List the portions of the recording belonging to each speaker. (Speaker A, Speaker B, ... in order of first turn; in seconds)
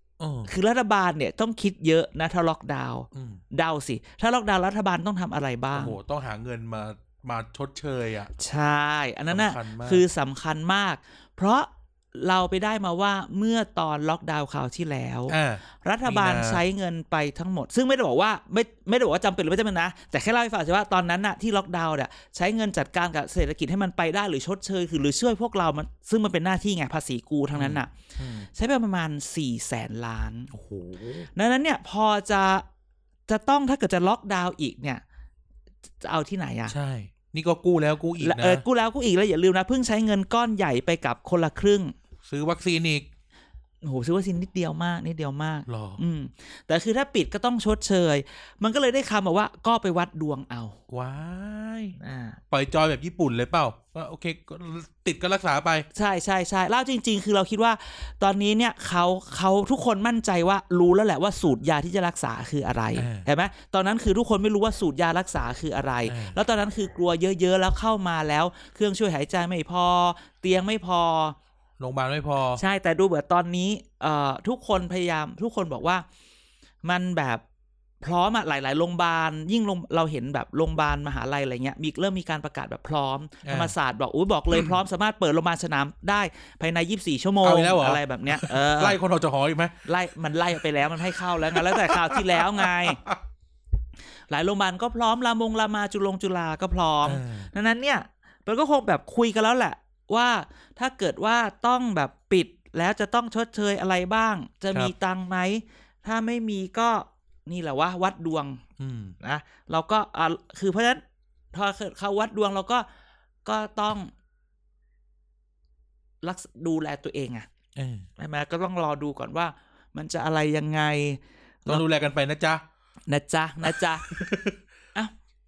Speaker A: 0.2-0.5, 3.1-3.4, 5.7-8.3, 9.3-10.0, 15.3-16.6, 27.5-28.5, 30.5-31.3, 36.7-38.6, 42.3-43.1, 45.7-46.0, 50.9-52.0, 52.5-55.9, 63.0-63.3, 66.1-66.4, 71.8-72.6, 83.4-83.7, 87.4-89.8, 91.0-93.2, 97.0-97.5, 108.8-109.2, 117.8-118.1, 121.7-122.6, 123.6-124.6
Speaker B: 0.5-6.0, 8.4-28.0, 28.5-30.5, 31.3-32.6, 33.3-35.0, 36.0-36.7, 38.2-41.9, 43.8-50.8, 52.0-52.4, 55.9-71.4, 72.6-76.0, 76.8-77.4, 78.0-89.0, 89.8-93.0, 94.3-108.6, 109.2-111.0, 111.5-112.9, 113.5-114.1, 116.2-117.5, 118.2-121.8, 123.1-124.1